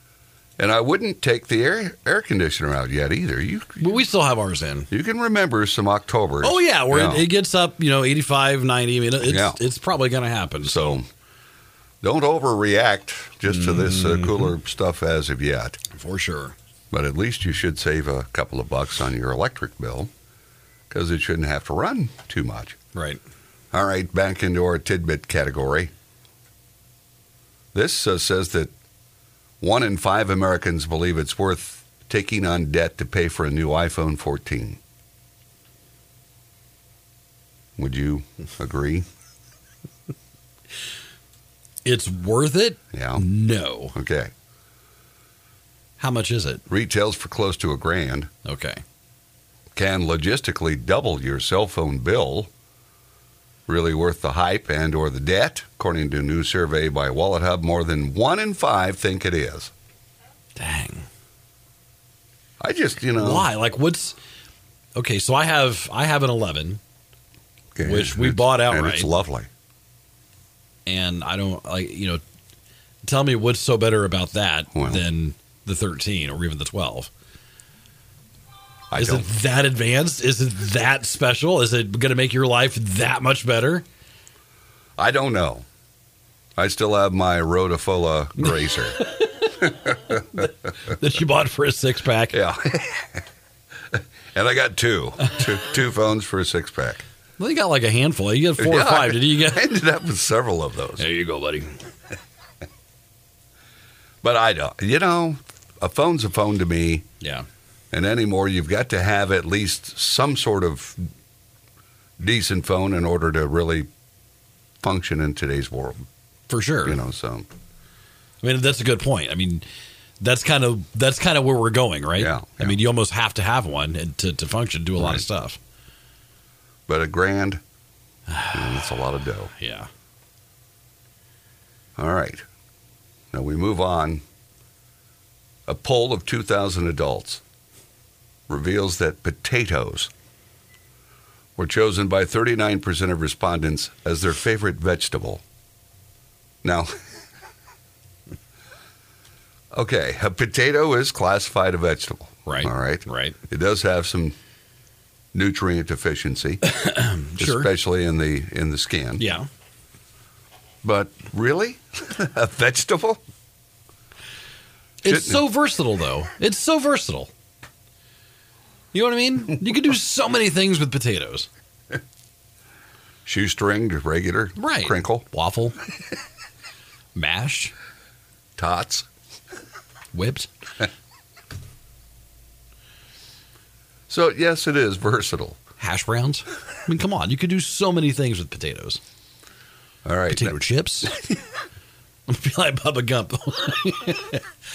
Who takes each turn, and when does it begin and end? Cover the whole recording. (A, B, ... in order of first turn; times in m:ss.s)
0:00.6-0:04.0 A
0:03.8-0:04.9 B
0:04.9-0:07.3 A
0:06.4-0:11.0 B
0:09.2-0:09.6 A
0:10.6-0:11.1 A
0:12.0-0:15.8 A
0:13.5-0:14.5 B
0:15.9-0:16.6 B
0:16.9-0:20.1 A
0:20.9-0:22.8 A
0:22.9-0:23.2 B
0:23.7-0:25.9 A
0:27.7-0:28.7 A
0:29.6-0:34.8 A
0:37.8-0:39.0 A
0:41.8-0:44.0 B
0:42.9-0:43.3 A
0:43.9-0:44.3 A
0:46.0-0:46.6 B
0:46.7-0:48.3 A
0:48.4-0:48.8 B
0:49.8-0:52.5 A
0:53.7-0:59.7 A
1:00.6-1:01.1 B
1:02.6-1:03.5 A
1:03.2-1:04.2 B
1:05.0-1:06.8 B
1:07.8-1:09.5 A
1:07.8-1:09.1 B
1:10.9-1:12.2 B
1:13.0-1:17.1 B
1:14.8-1:15.0 A
1:18.9-1:19.3 A
1:19.0-1:23.8 B
1:25.0-1:25.6 A
1:26.6-1:29.0 A
1:29.0-1:32.4 B
1:32.3-1:33.2 A
1:33.9-1:37.0 A
1:37.4-1:39.6 B
1:38.6-1:41.0 A
1:41.0-1:41.8 B
1:44.2-1:47.1 A
1:47.2-1:47.5 B
1:47.9-1:51.0 A
1:52.2-1:53.9 A
1:54.8-1:56.1 A
1:56.5-1:57.0 B
1:56.9-1:57.5 A
1:58.4-1:59.6 B
2:00.2-2:05.6 B
2:02.2-2:02.8 A
2:05.0-2:05.2 A
2:06.9-2:07.6 A
2:08.4-2:08.8 B
2:08.5-2:09.5 A
2:09.6-2:09.9 B
2:12.0-2:12.4 A
2:13.3-2:14.2 A
2:15.7-2:17.4 A
2:18.5-2:20.1 A
2:21.6-2:25.4 A
2:26.6-2:26.9 A
2:29.7-2:34.4 A
2:32.5-2:33.4 B
2:35.3-2:36.6 A
2:36.6-2:37.7 B
2:37.4-2:39.3 A
2:39.2-2:39.5 B
2:40.8-2:43.2 A
2:45.0-2:47.3 B
2:45.1-2:45.4 A
2:48.9-2:51.5 B
2:53.3-2:55.3 A
2:54.6-2:55.8 B
2:57.2-2:57.7 B
2:58.6-2:59.1 A
3:00.1-3:00.5 B
3:04.1-3:05.6 A
3:05.8-3:09.0 B
3:10.0-3:11.3 A
3:10.3-3:11.1 B
3:12.3-3:14.4 B